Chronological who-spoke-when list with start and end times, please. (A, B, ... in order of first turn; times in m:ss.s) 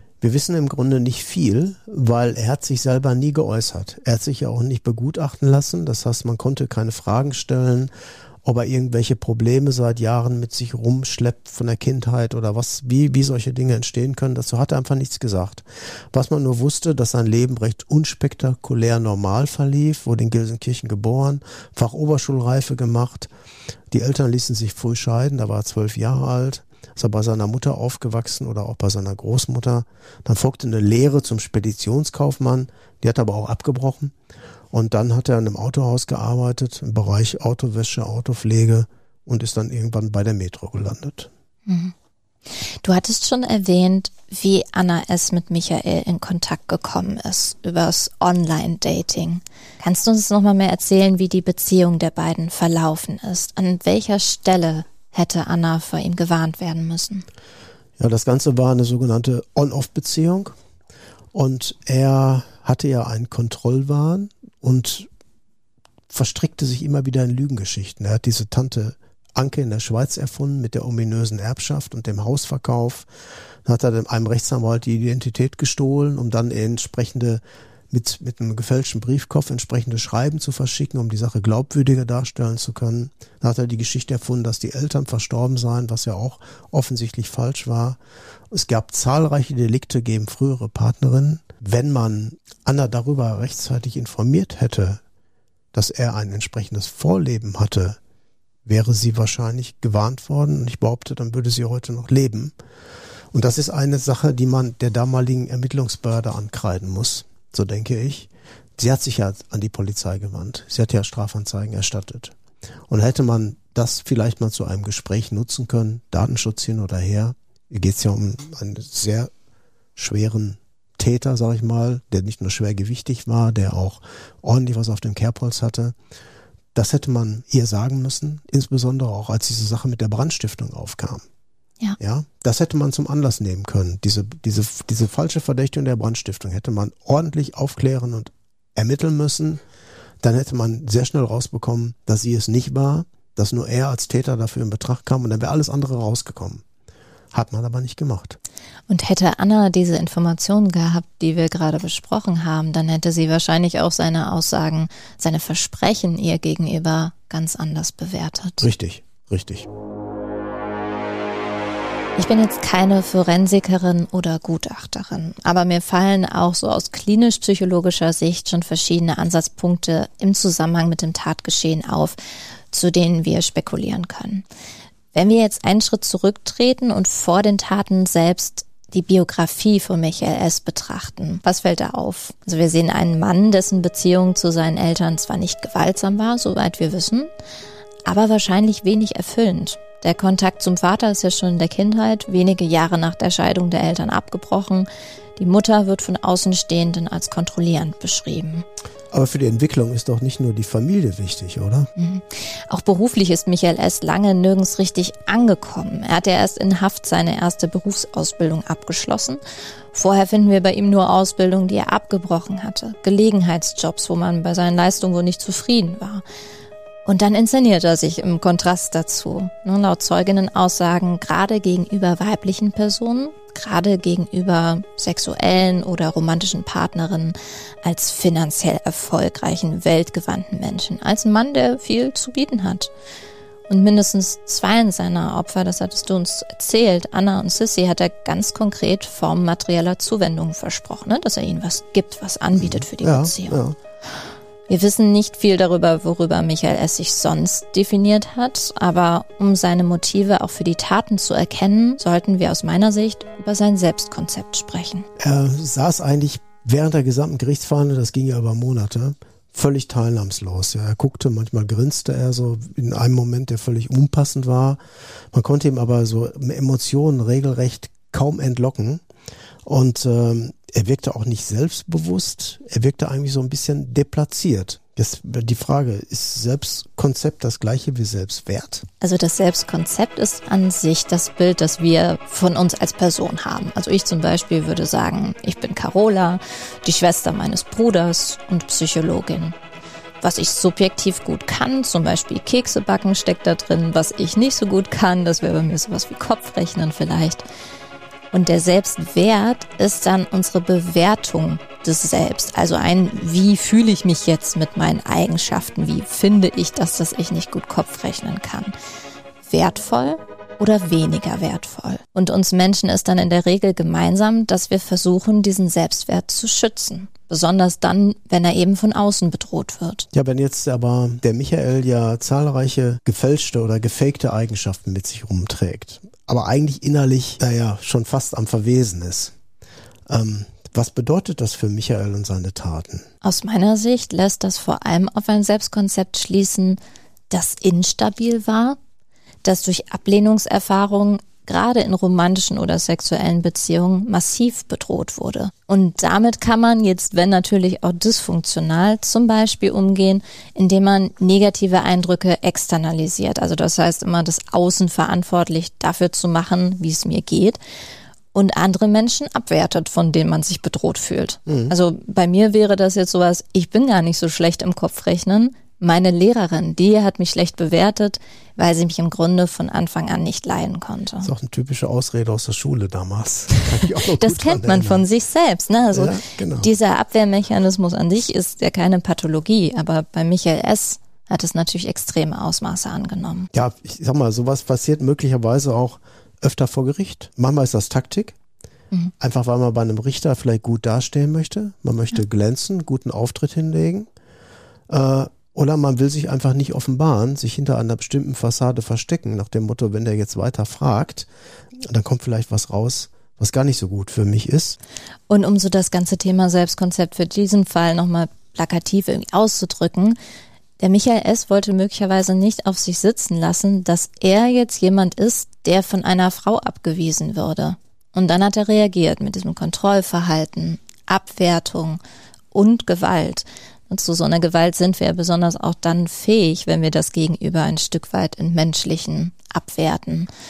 0:00.2-0:07.9 A
0:08.4-0:23.3 A
0:23.9-0:34.1 A
0:34.7-0:41.3 A
0:41.7-0:41.9 B
0:42.6-0:57.2 B
0:58.0-1:00.6 A
1:01.3-1:05.1 A
1:06.1-1:13.1 A
1:13.6-1:28.0 A
1:28.5-1:35.0 A
1:35.7-1:38.0 A
1:38.7-1:42.6 A
1:43.3-1:52.4 A
1:52.9-1:59.3 A
2:00.0-2:06.0 A
2:06.8-2:11.2 A
2:12.0-2:19.6 A
2:20.2-2:26.6 A
2:27.3-2:28.4 A
2:28.9-2:38.7 B
2:38.6-2:39.7 A
2:42.2-2:52.2 B
2:52.7-2:54.5 B
2:55.1-3:07.3 B
3:08.1-3:18.7 B
3:19.1-3:21.9 A
3:22.0-3:29.4 B
3:29.9-3:36.2 B
3:37.1-3:52.9 B
3:53.7-4:03.6 B
4:02.6-4:03.8 A
4:04.7-4:15.1 B
4:15.2-4:24.8 A
4:25.3-4:29.0 A
4:29.6-4:38.8 A
4:39.0-4:49.6 B
4:50.2-4:57.4 B
4:58.3-5:08.7 B
5:09.4-5:20.1 B
5:20.1-5:29.3 A
5:30.1-5:33.1 A
5:33.2-5:36.8 B
5:37.3-5:38.8 B
5:39.4-5:57.6 B
5:58.3-6:11.3 B
6:01.5-6:01.7 A
6:11.2-6:15.1 A
6:14.0-6:23.5 B
6:15.9-6:16.7 A
6:23.5-6:28.4 A
6:29.2-6:34.1 A
6:34.9-6:41.3 A
6:41.8-6:44.8 A
6:45.3-6:50.2 B
6:50.8-7:02.0 B
7:02.5-7:10.3 B